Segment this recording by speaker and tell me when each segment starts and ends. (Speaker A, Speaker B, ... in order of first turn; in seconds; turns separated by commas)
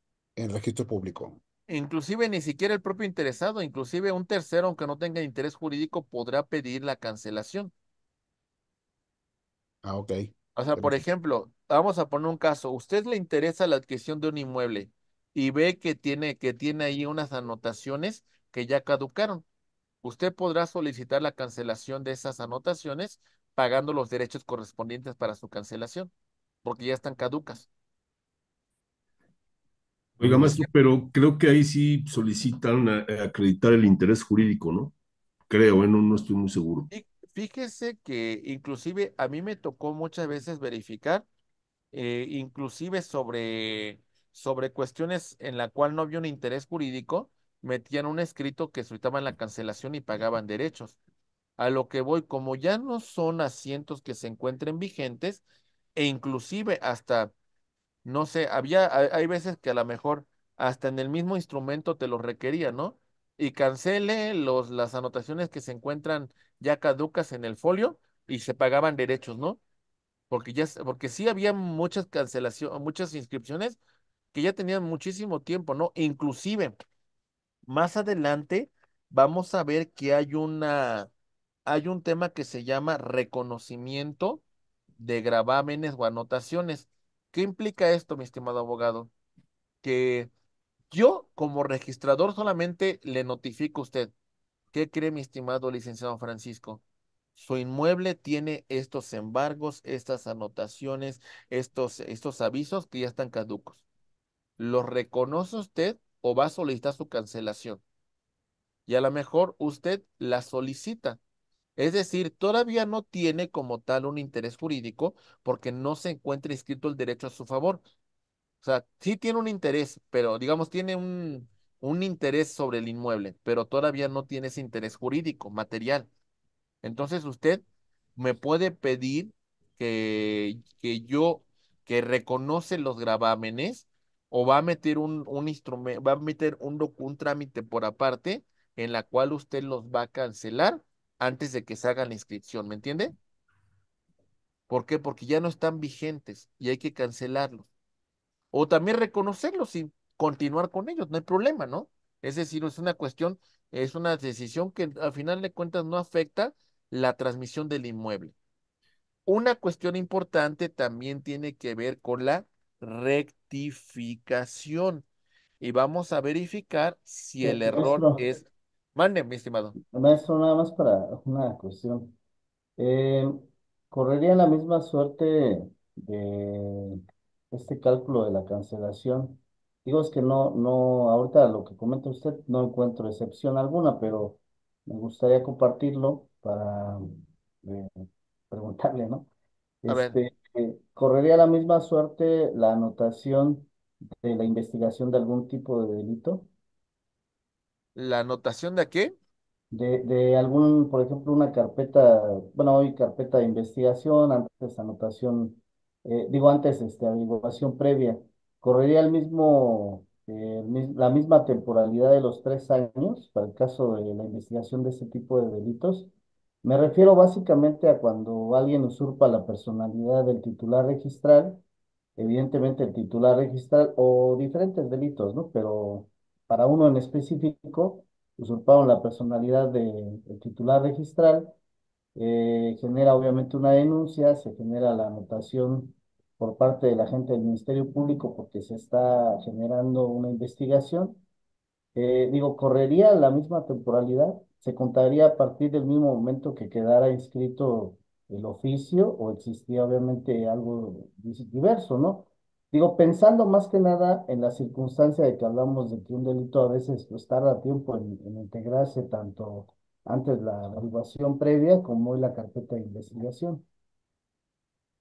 Speaker A: 0.4-1.4, Speaker B: 1.7-7.7, Speaker A: 9.8-10.9, Speaker B: 10.6-19.4, Speaker B: 20.0-26.1, Speaker B: 26.6-27.7, Speaker C: 30.2-34.9, Speaker B: 30.2-30.7, Speaker C: 35.5-36.9, Speaker B: 36.9-41.2, Speaker B: 41.9-51.0, Speaker B: 51.6-55.4, Speaker B: 56.0-57.3, Speaker B: 58.0-69.6, Speaker B: 70.3-73.8, Speaker B: 74.3-76.7, Speaker B: 77.7-81.1, Speaker B: 81.7-84.4, Speaker B: 85.0-89.1, Speaker B: 89.8-90.3, Speaker B: 90.9-94.1, Speaker B: 94.7-96.8, Speaker B: 97.3-103.8, Speaker B: 104.6-107.8, Speaker B: 108.9-111.2, Speaker B: 111.8-117.8, Speaker B: 118.6-126.1, Speaker B: 126.8-127.6, Speaker B: 128.2-143.1, Speaker B: 144.7-147.7, Speaker B: 148.5-158.3, Speaker B: 159.2-165.1, Speaker B: 165.6-169.8, Speaker D: 167.4-168.2, Speaker D: 169.9-172.1, Speaker D: 172.8-177.0, Speaker D: 177.5-189.3, Speaker D: 189.8-193.7, Speaker B: 189.9-190.2, Speaker D: 194.2-196.5, Speaker B: 197.9-199.1, Speaker D: 199.7-216.1, Speaker D: 216.6-221.6, Speaker D: 222.2-231.5, Speaker D: 232.2-241.2, Speaker D: 241.9-263.6